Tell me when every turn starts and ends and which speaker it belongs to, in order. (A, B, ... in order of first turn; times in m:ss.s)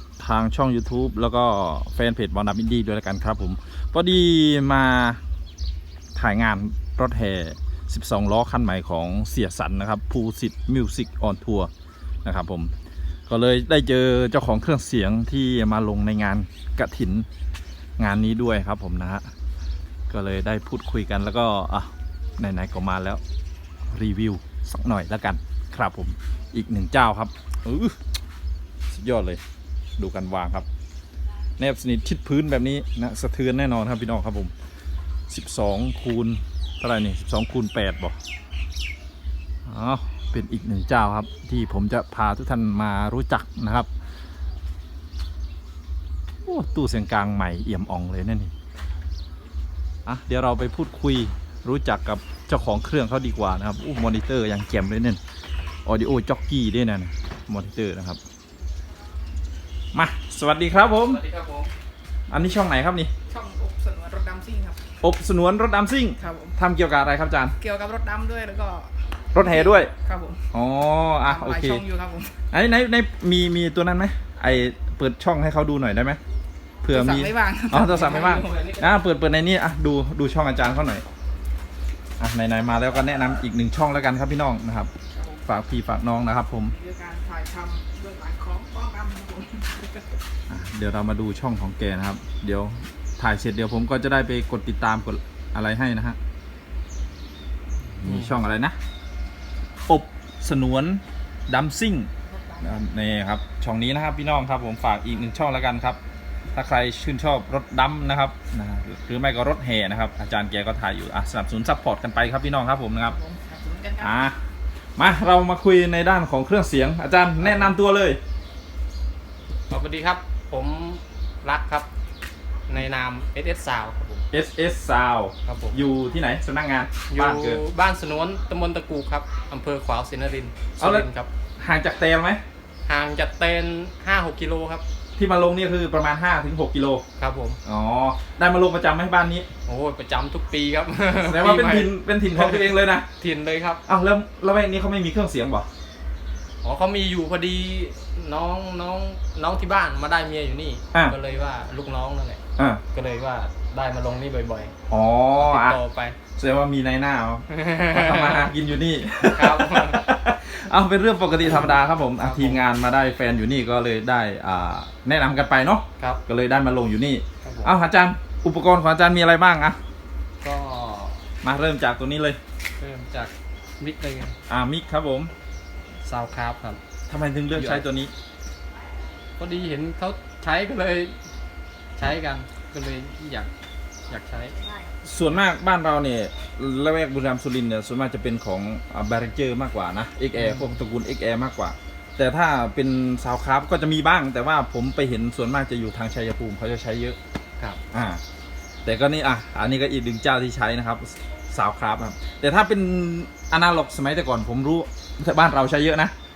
0:00.2-0:05.2 A
0:06.2-0:11.7 A
0:12.2-0:12.7 A
0:13.3-0:17.3 A
0:18.0-0:19.3 A
0:20.1-0:23.2 A
0:23.9-0:28.0 A
0:28.9-0:29.4 A
0:30.0-0:30.7 A
0:31.6-0:34.5 A
0:35.3-0:38.2 A
0:39.6-0:43.9 A
0:46.5-0:48.5 A
0:50.1-0:55.2 A
0:55.8-0:58.2 A
0:59.9-1:01.2 A
1:00.9-1:01.7 B
1:02.3-1:03.1 A
1:03.3-1:04.8 C
1:05.0-1:07.6 A
1:06.2-1:06.6 C
1:07.6-1:10.4 C
1:09.3-1:09.9 A
1:10.5-1:11.8 A
1:11.2-1:12.3 C
1:12.5-1:16.2 A
1:16.8-1:21.0 A
1:16.9-1:18.5 C
1:17.7-1:19.0 B
1:22.2-1:24.9 A
1:25.1-1:25.4 C
1:25.5-1:26.7 A
1:26.7-1:30.1 C
1:30.5-1:36.2 A
1:38.0-1:38.8 A
1:38.0-1:38.4 B
1:39.9-1:42.1 A
1:42.3-1:42.8 C
1:42.6-1:46.0 A
1:46.5-1:53.2 A
1:53.0-1:54.2 C
1:54.0-1:54.4 A
1:55.0-1:58.2 A
1:57.4-1:57.7 B
1:59.7-2:01.9 B
2:02.7-2:04.3 B
2:04.3-2:07.6 A
2:05.4-2:05.8 B
2:07.1-2:11.3 B
2:10.8-2:11.1 A
2:11.6-2:12.4 A
2:12.9-2:14.8 B
2:15.2-2:17.0 A
2:17.2-2:17.6 B
2:17.6-2:19.5 A
2:19.7-2:23.8 B
2:21.2-2:23.1 A
2:23.9-2:25.7 A
2:26.6-2:32.4 B
2:32.6-2:32.8 A
2:32.9-2:34.7 B
2:34.9-2:35.8 A
2:35.4-2:36.2 B
2:36.4-2:49.8 A
2:37.5-2:38.5 B
2:39.2-2:40.0 B
2:42.2-2:42.7 B
2:47.4-2:47.8 B
2:50.4-2:51.2 B
2:51.4-2:52.4 A
2:52.8-2:54.4 B
2:54.5-2:55.3 A
2:56.0-2:56.8 B
2:57.1-2:58.1 A
2:57.5-2:57.8 B
2:59.4-3:01.2 B
3:02.0-3:03.5 B
3:04.1-3:04.6 B
3:04.6-3:04.9 C
3:05.0-3:17.2 A
3:10.4-3:10.7 B
3:17.9-3:18.2 A
3:18.8-3:26.2 A